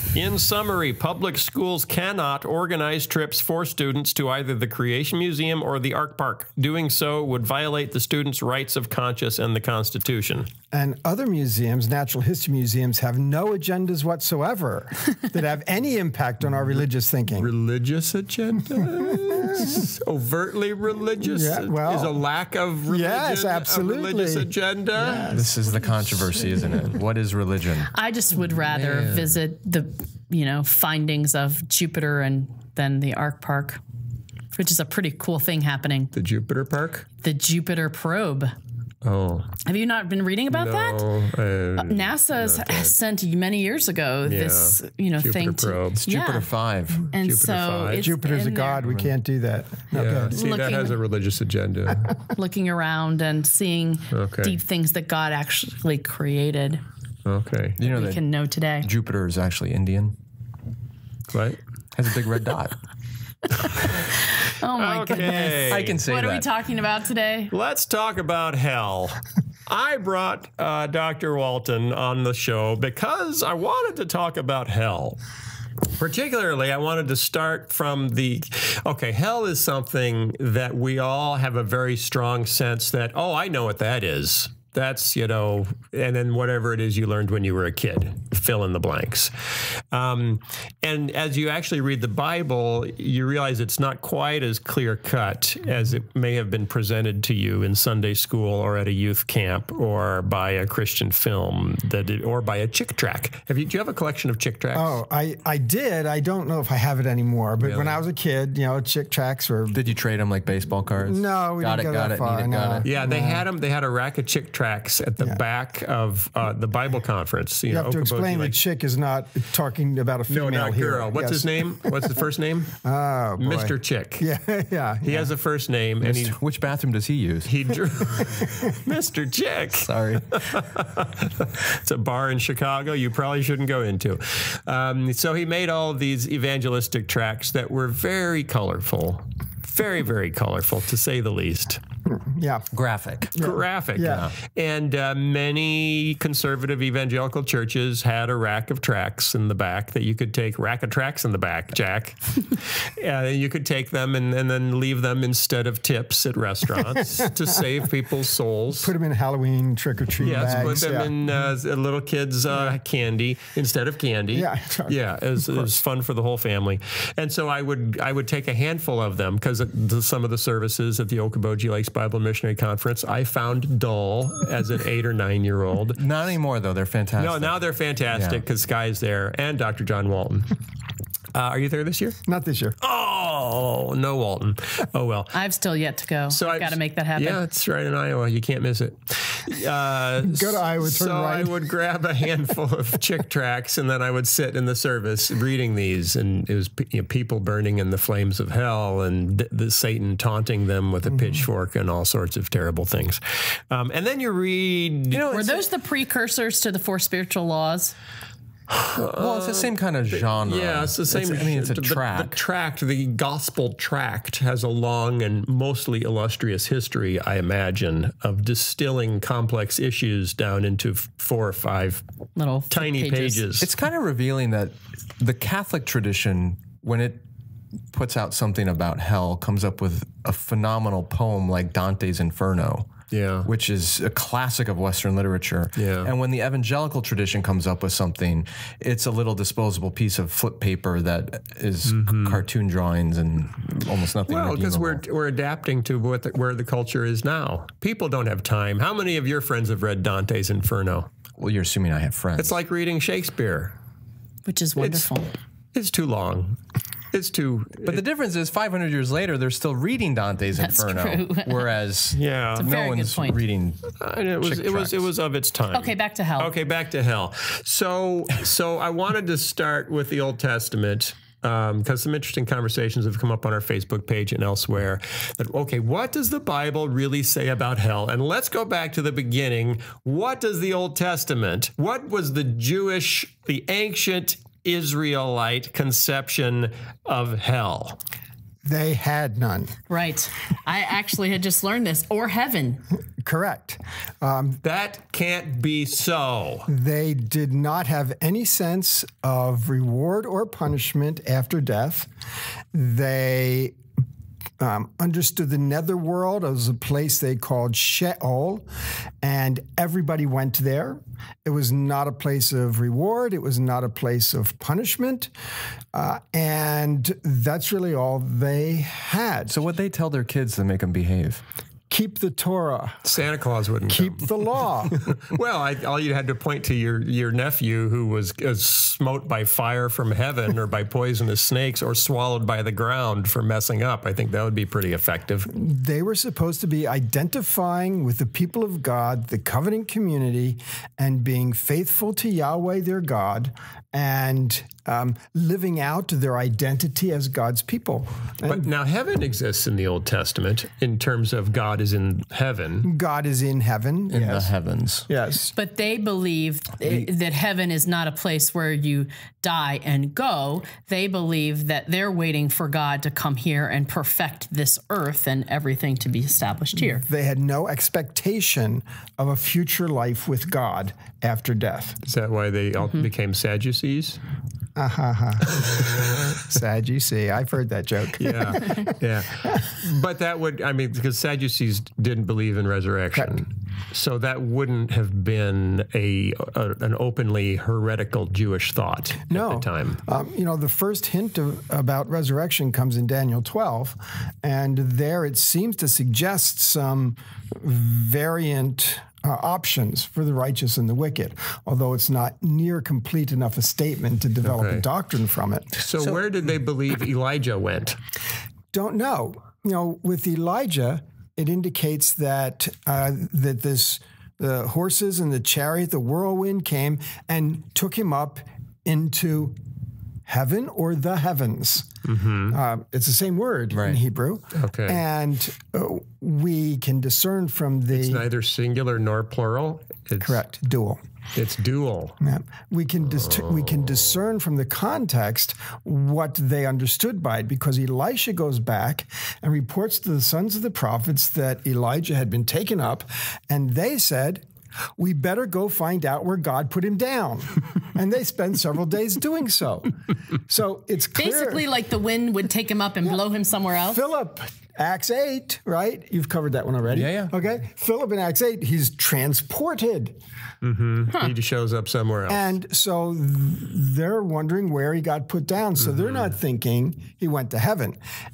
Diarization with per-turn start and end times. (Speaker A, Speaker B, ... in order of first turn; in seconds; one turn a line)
Speaker A: 0.1-10.5
Speaker B: 10.7-17.5
Speaker A: 16.6-25.4
Speaker B: 18.8-19.9
Speaker B: 21.2-22.1
Speaker B: 22.9-25.5
Speaker C: 25.3-27.9
Speaker D: 27.9-33.8
Speaker A: 28.8-29.3
Speaker D: 34.5-36.1
Speaker A: 36.1-37.1
Speaker D: 37.2-38.5
Speaker A: 39.0-39.5
Speaker D: 39.6-41.0
Speaker A: 40.5-42.9
Speaker D: 41.8-46.5
Speaker A: 44.3-46.0
Speaker C: 46.0-47.1
Speaker D: 47.1-48.8
Speaker A: 47.2-48.1
Speaker B: 48.0-50.3
Speaker C: 48.8-49.1
Speaker A: 49.9-52.1
Speaker D: 50.3-51.0
Speaker D: 52.4-56.8
Speaker A: 54.1-54.6
Speaker A: 57.3-57.8
Speaker C: 57.8-58.2
Speaker D: 57.8-58.9
Speaker C: 58.8-60.1
Speaker A: 61.3-61.6
Speaker C: 62.0-62.8
Speaker D: 63.6-67.5
Speaker A: 64.7-66.0
Speaker C: 65.2-66.5
Speaker A: 67.5-75.2
Speaker A: 75.9-89.3
Speaker A: 89.9-105.0
Speaker B: 104.7-109.8
Speaker A: 107.6-108.0
Speaker C: 109.7-112.9
Speaker B: 111.0-113.5
Speaker A: 112.8-118.6
Speaker B: 117.7-122.2
Speaker A: 120.3-122.8
Speaker B: 122.8-125.3
Speaker A: 123.4-124.3
Speaker A: 125.0-126.4
Speaker C: 126.0-127.5
Speaker A: 127.5-141.8
Speaker C: 129.8-130.4
Speaker B: 142.1-142.7
Speaker C: 142.7-143.3
Speaker B: 143.3-144.3
Speaker A: 143.4-158.9
Speaker C: 144.0-144.3
Speaker B: 158.8-161.1
Speaker A: 160.2-176.0
Speaker C: 160.3-160.8
Speaker B: 162.5-162.8
Speaker B: 164.3-165.7
Speaker C: 176.0-177.6
Speaker A: 177.2-180.5
Speaker C: 178.1-178.4
Speaker A: 181.3-182.2
Speaker B: 182.3-182.8
Speaker A: 182.8-185.3
Speaker D: 185.3-187.4
Speaker A: 186.3-205.3
Speaker B: 190.2-191.6
Speaker B: 201.1-201.4
Speaker C: 205.1-205.7
Speaker D: 205.3-207.9
Speaker A: 208.7-222.0
Speaker C: 209.2-212.4
Speaker D: 222.4-223.5
Speaker A: 222.7-223.7
Speaker C: 223.6-227.2
Speaker C: 227.9-232.9
Speaker A: 233.1-233.5
Speaker C: 233.4-245.0
Speaker A: 235.8-236.1
Speaker A: 241.9-242.4
Speaker A: 244.3-251.1
Speaker C: 251.4-252.6
Speaker A: 252.4-253.7
Speaker D: 254.5-255.3
Speaker A: 254.8-255.1
Speaker A: 255.7-256.6
Speaker A: 257.1-258.0
Speaker C: 257.8-265.1
Speaker D: 260.6-261.7
Speaker A: 262.1-262.7
Speaker D: 262.6-263.4
Speaker A: 264.0-288.0
Speaker D: 265.7-266.5
Speaker B: 288.6-289.8
Speaker D: 289.9-292.8
Speaker B: 293.2-294.6
Speaker A: 294.6-296.7
Speaker B: 296.7-302.1
Speaker B: 302.7-303.8
Speaker B: 304.6-308.7
Speaker B: 309.2-315.3
Speaker B: 315.9-319.6
Speaker C: 319.5-321.4
Speaker B: 321.9-323.1
Speaker A: 323.1-335.5
Speaker B: 323.9-325.1
Speaker B: 335.5-348.7
Speaker A: 348.4-352.9
Speaker B: 352.8-354.5
Speaker C: 354.1-355.1
Speaker B: 355.1-355.5
Speaker D: 355.6-367.0
Speaker B: 366.8-372.0
Speaker A: 372.0-374.2
Speaker B: 374.8-379.6
Speaker A: 378.2-390.0
Speaker B: 389.3-405.8
Speaker A: 404.4-404.9
Speaker A: 405.8-408.0
Speaker B: 408.7-419.6
Speaker B: 420.3-421.9
Speaker A: 422.1-422.6
Speaker B: 422.5-428.2
Speaker C: 423.7-424.0
Speaker A: 424.5-425.0
Speaker A: 427.9-430.4
Speaker B: 430.2-431.0
Speaker A: 431.4-432.2
Speaker B: 432.2-444.4
Speaker A: 433.2-434.0
Speaker B: 445.0-449.9
Speaker B: 450.5-451.7
Speaker D: 451.2-454.0
Speaker B: 453.9-460.2
Speaker C: 456.9-457.3
Speaker A: 460.6-462.6
Speaker B: 462.3-468.0
Speaker A: 465.9-466.3